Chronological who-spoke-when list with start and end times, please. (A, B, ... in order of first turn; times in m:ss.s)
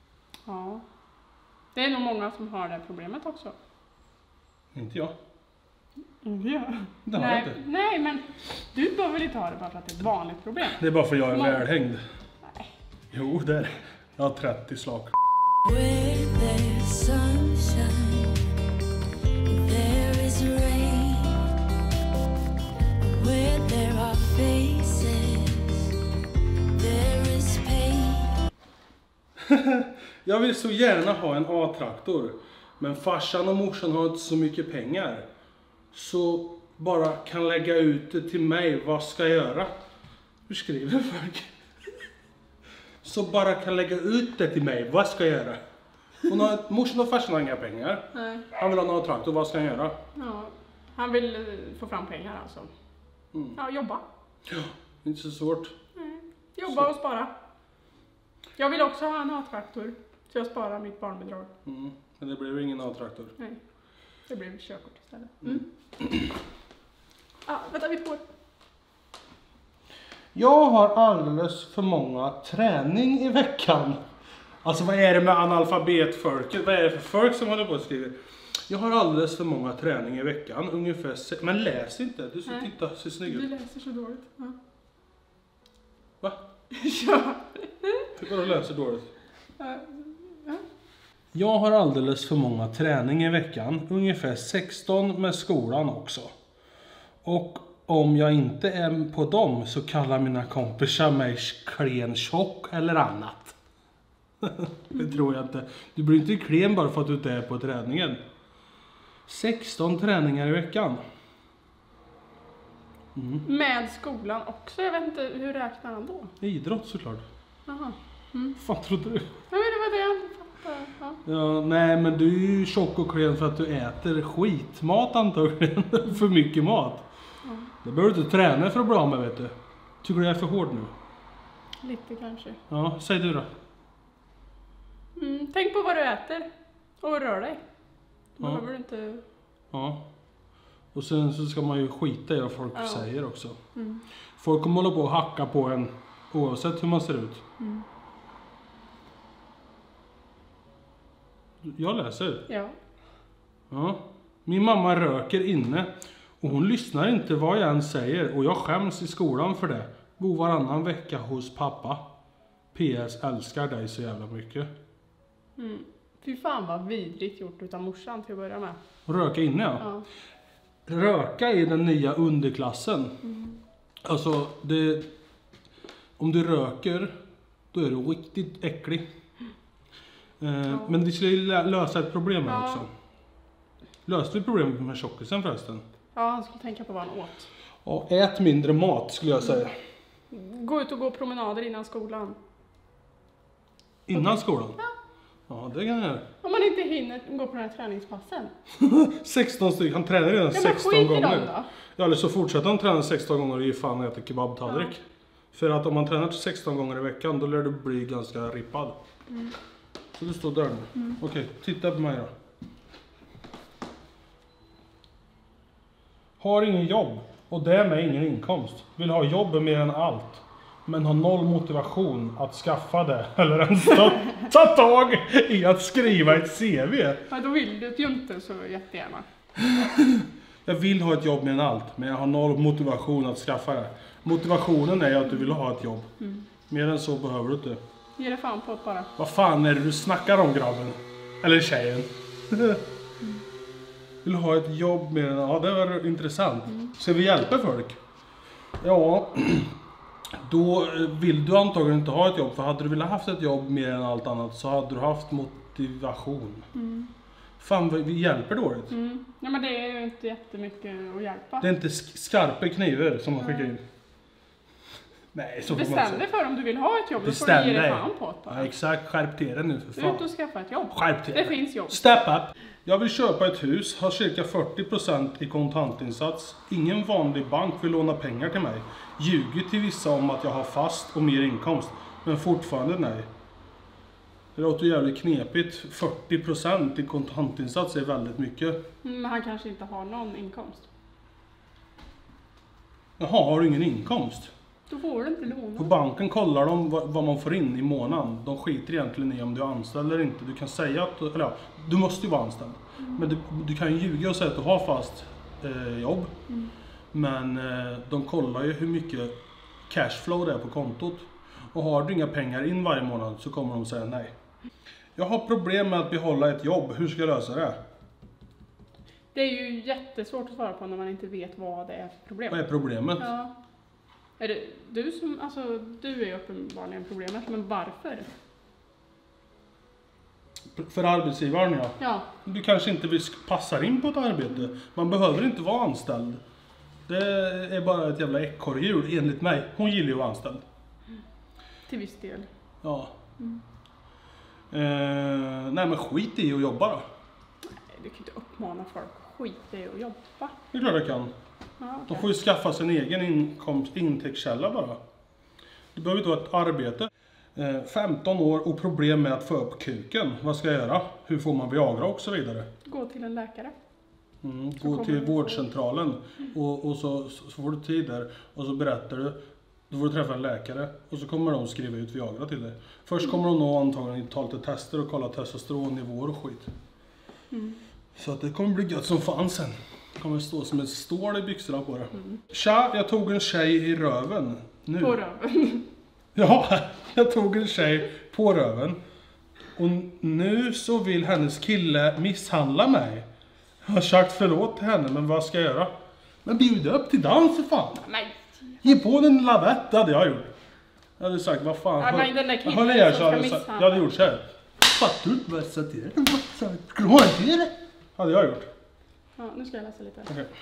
0:00.4-0:00.8 A
0:01.7-0:03.5 A
0:04.7-0:05.2 B
0:06.2-0:11.6 A
0:07.0-0:07.6 B
0:10.6-0:12.0 B
0:12.4-0:12.7 A
0:13.1-0:15.1 B
0:15.6-0:18.4 C
0:19.5-0:21.4 C
0:23.0-0:25.9 C
0:26.8-0:28.3 C
0:29.4-0:35.2 B
0:35.9-0:39.7 B
0:40.5-0:41.5 B
0:43.0-0:45.6 B
0:46.2-0:50.0 B
0:48.1-0:48.4 A
0:50.1-0:52.7 A
0:53.3-0:53.6 B
0:53.6-0:54.0 A
0:54.5-0:55.7 B
0:56.0-0:57.3 A
0:58.6-1:01.5 A
1:01.6-1:03.3 B
1:04.3-1:05.6 A
1:05.4-1:06.3 B
1:07.4-1:08.2 A
1:10.3-1:14.0 B
1:14.6-1:18.1 B
1:18.7-1:23.5 B
1:23.2-1:24.6 A
1:26.7-1:28.1 A
1:28.1-1:29.1 B
1:29.6-1:30.6 A
1:31.3-1:36.3 B
1:37.2-1:43.5 B
1:44.4-1:48.2 B
1:49.3-1:51.0 B
1:53.1-1:53.4 B
1:53.4-1:56.3 A
1:56.4-1:57.2 B
1:57.7-1:58.6 A
1:58.6-1:59.3 B
1:59.5-2:01.2 A
2:01.2-2:07.0 B
2:07.8-2:10.9 B
2:11.8-2:12.6 A
2:12.7-2:13.5 B
2:15.2-2:16.5 A
2:17.0-2:17.6 A
2:18.4-2:19.2 A
2:19.7-2:20.0 B
2:20.9-2:23.6 B
2:22.7-2:23.0 A
2:23.7-2:24.0 A
2:24.4-2:27.4 B
2:27.6-2:27.8 A
2:31.6-2:32.4 B
2:32.5-2:32.8 A
2:33.7-2:42.0 B
2:42.7-2:44.7 B
2:45.6-2:48.8 A
2:49.0-2:49.9 B
2:50.9-2:53.2 B
2:53.2-2:53.6 A
2:54.0-2:55.1 B
2:56.2-2:57.2 B
2:57.7-2:59.0 B
3:00.4-3:02.9 B
3:00.7-3:00.9 A
3:02.4-3:02.8 A
3:04.0-3:05.8 B
3:06.1-3:07.5 A
3:07.8-3:09.7 B
3:10.3-3:12.4 A
3:14.1-3:14.8 B
3:14.1-3:14.9 A
3:15.5-3:16.2 B
3:16.4-3:18.5 A
3:18.7-3:25.0 B
3:20.5-3:21.7 A
3:24.7-3:24.9 A
3:25.5-3:29.0 B
3:29.3-3:29.5 A
3:30.2-3:32.3 B
3:36.4-3:47.2 B
3:47.3-3:49.2 A
3:49.6-3:56.1 B
3:56.2-3:56.4 A
3:56.7-3:57.8 B
3:58.2-3:59.1 A
3:59.2-4:02.8 B
4:04.2-4:08.0 B
4:08.8-4:09.7 B
4:10.4-4:16.7 B
4:16.7-4:17.1 A
4:17.6-4:18.9 B
4:18.9-4:21.6 A
4:21.6-4:23.8 B
4:23.4-4:23.7 A
4:25.3-4:26.2 B
4:25.6-4:28.7 A
4:27.2-4:30.2 B
4:30.0-4:32.0 A
4:30.9-4:43.3 B
4:44.5-4:48.8 B
4:49.0-4:50.9 A
4:53.2-4:54.5 B
4:54.9-4:55.9 A
4:55.8-5:06.3 B
5:07.1-5:09.3 B
5:09.9-5:14.3 B
5:15.2-5:17.8 B
5:19.3-5:22.6 A
5:22.5-5:23.3 B
5:23.2-5:23.5 A
5:24.4-5:28.3 A
5:30.7-5:36.4 B
5:32.0-5:32.3 A
5:37.1-5:40.6 B
5:41.9-5:42.5 A
5:42.8-5:43.1 B
5:44.7-5:47.0 B
5:47.6-5:50.6 A
5:50.7-5:51.3 B
5:51.8-5:52.2 A
5:52.1-5:55.0 B
5:55.9-6:02.7 B
6:02.8-6:03.7 A
6:04.4-6:09.4 B
6:04.8-6:05.6 A
6:09.9-6:16.7 B
6:17.5-6:17.8 A
6:18.2-6:25.2 B
6:25.0-6:25.9 A
6:26.3-6:29.0 B
6:29.8-6:33.3 B
6:33.8-6:35.9 B
6:36.4-6:38.0 B
6:38.0-6:38.9 A
6:38.8-6:40.5 B
6:41.2-6:48.7 B
6:42.0-6:44.0 A
6:49.4-6:50.3 A